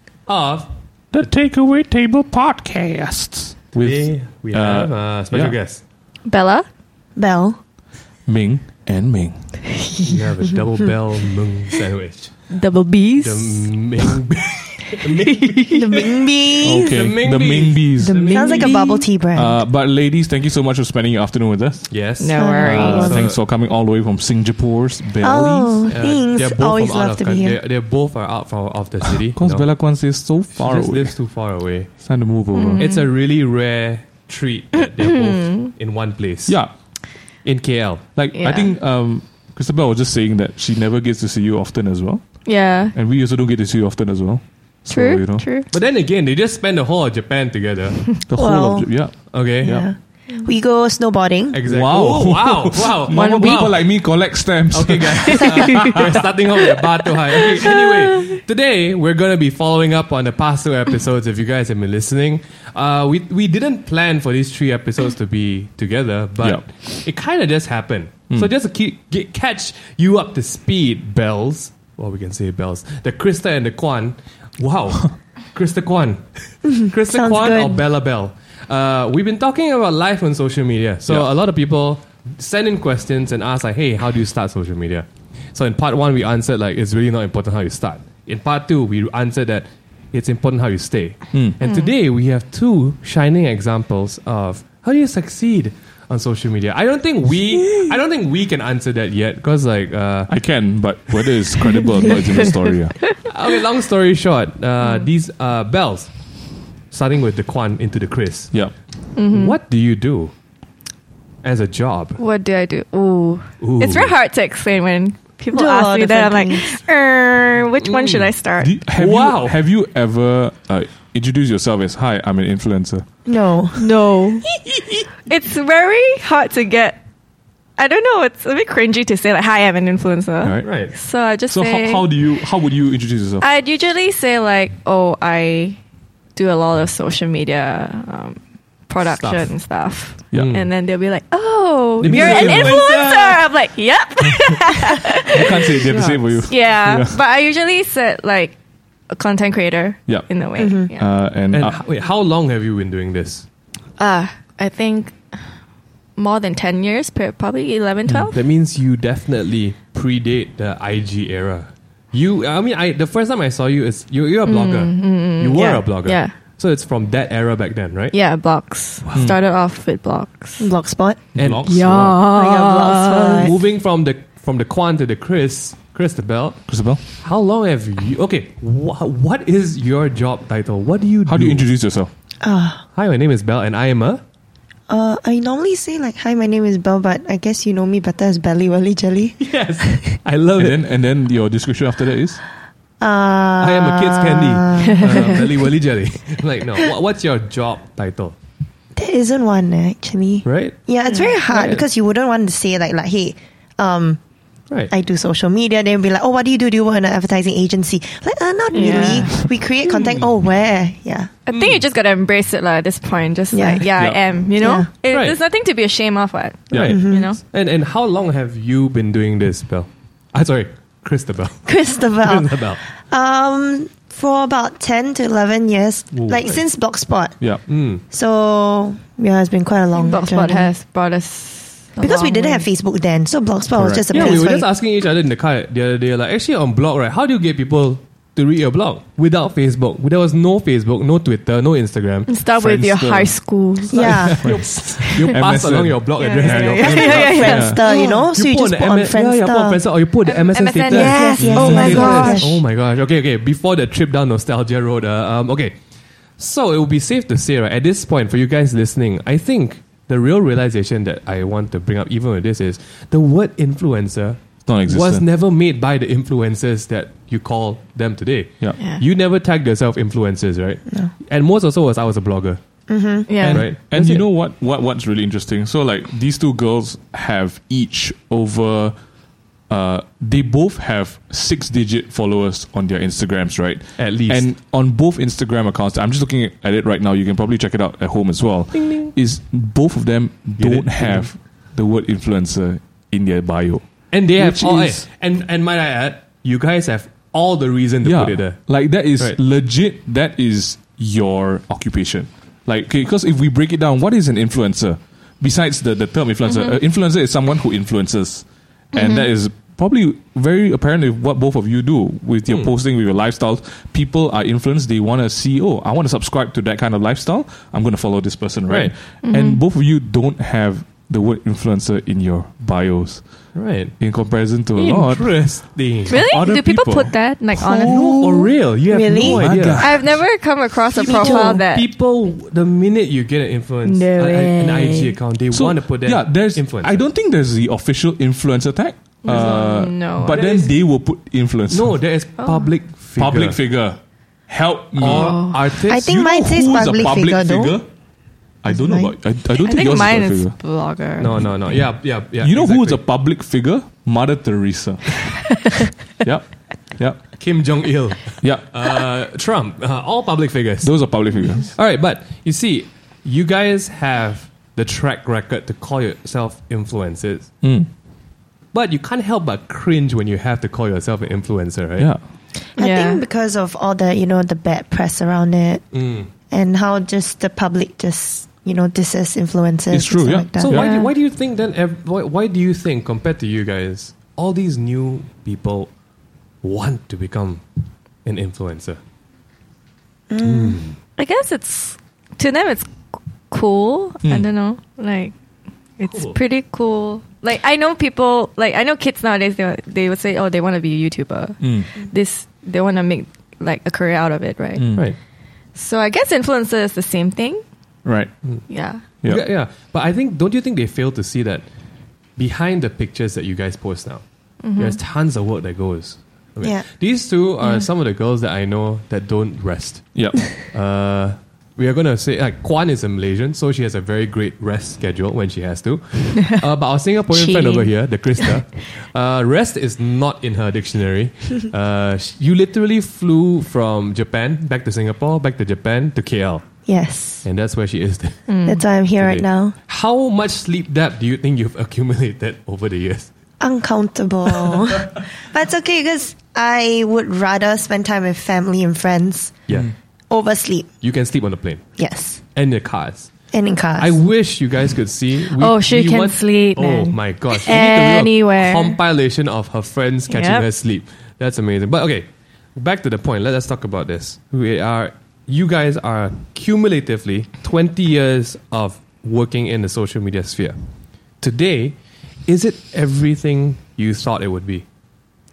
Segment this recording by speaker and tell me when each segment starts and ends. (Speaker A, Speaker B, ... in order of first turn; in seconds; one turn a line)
Speaker A: 0.3-0.7
Speaker B: 1.1-5.6
Speaker A: 3.8-5.8
Speaker C: 6.2-6.6
Speaker D: 7.2-7.6
Speaker B: 8.3-9.5
Speaker A: 10.1-12.4
Speaker C: 12.5-13.7
Speaker A: 13.2-16.1
Speaker C: 15.2-16.0
Speaker D: 15.7-16.9
Speaker B: 16.6-18.8
Speaker A: 16.6-18.8
Speaker D: 18.0-19.6
Speaker C: 18.5-19.0
Speaker B: 19.3-21.9
Speaker A: 21.9-23.4
Speaker C: 22.2-23.1
Speaker D: 22.3-23.2
Speaker B: 22.6-26.0
Speaker D: 25.2-27.6
Speaker A: 25.9-29.7
Speaker B: 29.3-31.1
Speaker A: 30.5-31.9
Speaker B: 32.0-32.9
Speaker C: 32.5-33.0
Speaker A: 32.8-36.6
Speaker C: 35.0-35.7
Speaker B: 36.5-36.7
Speaker A: 37.4-38.0
Speaker B: 38.1-45.5
Speaker C: 38.3-38.8
Speaker C: 42.4-42.9
Speaker C: 44.9-45.7
Speaker A: 45.7-48.0
Speaker B: 48.3-49.9
Speaker D: 48.4-48.9
Speaker A: 49.3-49.7
Speaker D: 49.6-51.6
Speaker A: 51.5-53.9
Speaker B: 51.6-56.2
Speaker C: 53.1-53.7
Speaker A: 54.7-100.3
Speaker C: 55.4-56.0
Speaker D: 76.6-77.8
Speaker B: 91.3-91.6
Speaker C: 91.6-91.9
Speaker B: 100.3-103.0
Speaker A: 101.2-102.1
Speaker A: 103.2-106.1
Speaker C: 104.8-105.1
Speaker A: 106.9-108.6
Speaker C: 109.1-109.6
Speaker A: 109.3-110.3
Speaker A: 111.4-112.2
Speaker C: 112.2-118.7
Speaker A: 113.6-114.2
Speaker D: 115.5-116.8
Speaker A: 117.8-118.3
Speaker B: 118.6-123.0
Speaker A: 118.9-119.6
Speaker D: 123.2-123.8
Speaker C: 123.8-124.4
Speaker A: 124.6-125.0
Speaker C: 125.2-127.0
Speaker C: 127.8-132.2
Speaker B: 130.4-130.7
Speaker A: 130.6-130.9
Speaker B: 131.5-133.4
Speaker C: 133.4-135.8
Speaker C: 136.3-145.8
Speaker A: 139.0-139.5
Speaker B: 140.3-140.6
Speaker A: 140.3-140.7
Speaker B: 142.0-142.9
Speaker A: 142.0-143.4
Speaker B: 145.2-147.2
Speaker A: 145.8-146.4
Speaker C: 146.4-148.6
Speaker C: 149.1-151.1
Speaker D: 150.6-150.9
Speaker B: 150.9-151.8
Speaker A: 151.5-153.4
Speaker C: 154.0-155.2
Speaker C: 156.2-158.4
Speaker A: 158.3-168.2
Speaker C: 164.4-166.3
Speaker C: 168.1-170.7
Speaker A: 169.0-169.3
Speaker D: 170.6-171.2
Speaker A: 171.3-172.1
Speaker B: 171.4-172.2
Speaker C: 171.6-173.3
Speaker D: 172.2-173.6
Speaker A: 173.2-176.6
Speaker B: 176.7-177.0
Speaker A: 177.2-181.7
Speaker B: 181.2-182.1
Speaker D: 182.4-182.8
Speaker A: 182.9-184.2
Speaker D: 184.9-190.1
Speaker A: 189.4-190.8
Speaker B: 190.6-192.4
Speaker D: 193.0-195.4
Speaker A: 193.6-198.3
Speaker D: 198.9-204.2
Speaker A: 200.4-200.8
Speaker C: 201.1-201.3
Speaker A: 201.4-201.8
Speaker D: 204.9-211.3
Speaker C: 208.7-209.4
Speaker A: 209.8-210.3
Speaker C: 211.5-217.4
Speaker A: 211.5-211.8
Speaker D: 213.5-213.9
Speaker B: 214.0-214.3
Speaker D: 214.6-214.9
Speaker A: 215.1-215.4
Speaker A: 216.7-222.8
Speaker D: 216.9-217.3
Speaker D: 221.7-227.4
Speaker B: 226.1-226.6
Speaker A: 227.7-228.0
Speaker D: 228.1-230.7
Speaker C: 229.9-232.7
Speaker D: 232.0-234.7
Speaker B: 233.8-234.4
Speaker A: 234.0-242.3
Speaker C: 242.3-244.4
Speaker B: 242.6-243.3
Speaker A: 243.9-255.7
Speaker D: 243.9-244.4
Speaker B: 244.1-247.9
Speaker C: 245.0-245.3
Speaker C: 246.2-248.0
Speaker D: 246.8-249.8
Speaker C: 250.2-252.5
Speaker D: 250.9-252.6
Speaker B: 251.3-252.3
Speaker A: 256.4-272.6
Speaker B: 264.6-265.2
Speaker C: 268.8-269.0
Speaker D: 272.9-273.4
Speaker C: 273.3-273.7
Speaker B: 273.4-278.9
Speaker A: 273.5-274.2
Speaker B: 279.7-293.8
Speaker A: 284.0-284.5
Speaker A: 288.7-289.1
Speaker A: 290.6-291.3
Speaker A: 294.1-299.4
Speaker B: 294.4-295.0
Speaker B: 298.0-323.2
Speaker C: 306.5-306.7
Speaker C: 308.9-309.2
Speaker A: 318.7-318.9
Speaker C: 319.2-319.6
Speaker A: 323.5-323.9
Speaker B: 324.0-325.4
Speaker A: 324.7-326.2
Speaker C: 326.1-328.2
Speaker B: 326.1-328.5
Speaker A: 327.9-330.0
Speaker D: 328.9-329.4
Speaker B: 329.2-330.2
Speaker C: 329.8-331.9
Speaker A: 330.9-337.1
Speaker D: 331.0-331.6
Speaker C: 333.8-335.1
Speaker B: 335.5-342.0
Speaker C: 339.2-340.7
Speaker A: 339.3-339.6
Speaker A: 340.3-340.7
Speaker A: 341.7-343.6
Speaker C: 342.4-342.7
Speaker B: 343.2-345.4
Speaker A: 345.0-346.7
Speaker C: 345.1-345.6
Speaker D: 345.9-347.8
Speaker B: 346.2-347.9
Speaker B: 348.6-350.5
Speaker D: 348.7-349.1
Speaker C: 349.5-351.4
Speaker A: 351.2-353.1
Speaker B: 352.4-355.6
Speaker B: 356.2-357.2
Speaker A: 357.4-367.5
Speaker B: 358.4-358.7
Speaker B: 360.8-361.7
Speaker B: 367.6-367.9
Speaker A: 368.7-372.1
Speaker C: 372.8-373.2
Speaker D: 372.8-375.8
Speaker A: 375.9-376.3
Speaker D: 376.5-380.8
Speaker B: 379.9-380.9
Speaker A: 380.6-385.9
Speaker C: 380.8-381.1
Speaker A: 386.6-387.6
Speaker A: 388.2-389.0
Speaker D: 390.3-390.8
Speaker A: 390.4-390.9
Speaker C: 391.2-392.9
Speaker C: 393.5-395.3
Speaker C: 396.0-404.8
Speaker A: 396.0-396.4
Speaker B: 401.6-401.9
Speaker B: 404.8-405.1
Speaker C: 405.7-407.6
Speaker B: 408.0-408.3
Speaker C: 408.7-409.0
Speaker A: 409.2-411.6
Speaker A: 412.4-414.2
Speaker C: 414.6-415.0
Speaker A: 414.7-436.6
Speaker B: 420.1-420.4
Speaker C: 427.3-428.6
Speaker D: 436.9-437.4
Speaker A: 437.4-438.4
Speaker C: 438.5-438.9
Speaker D: 438.6-439.7
Speaker A: 439.1-443.3
Speaker D: 443.6-449.6
Speaker D: 450.3-450.9
Speaker A: 451.0-451.8
Speaker D: 452.0-452.4
Speaker A: 452.5-453.3
Speaker D: 453.5-454.2
Speaker A: 454.0-470.8
Speaker C: 455.5-459.0
Speaker C: 460.3-460.6
Speaker A: 471.4-474.8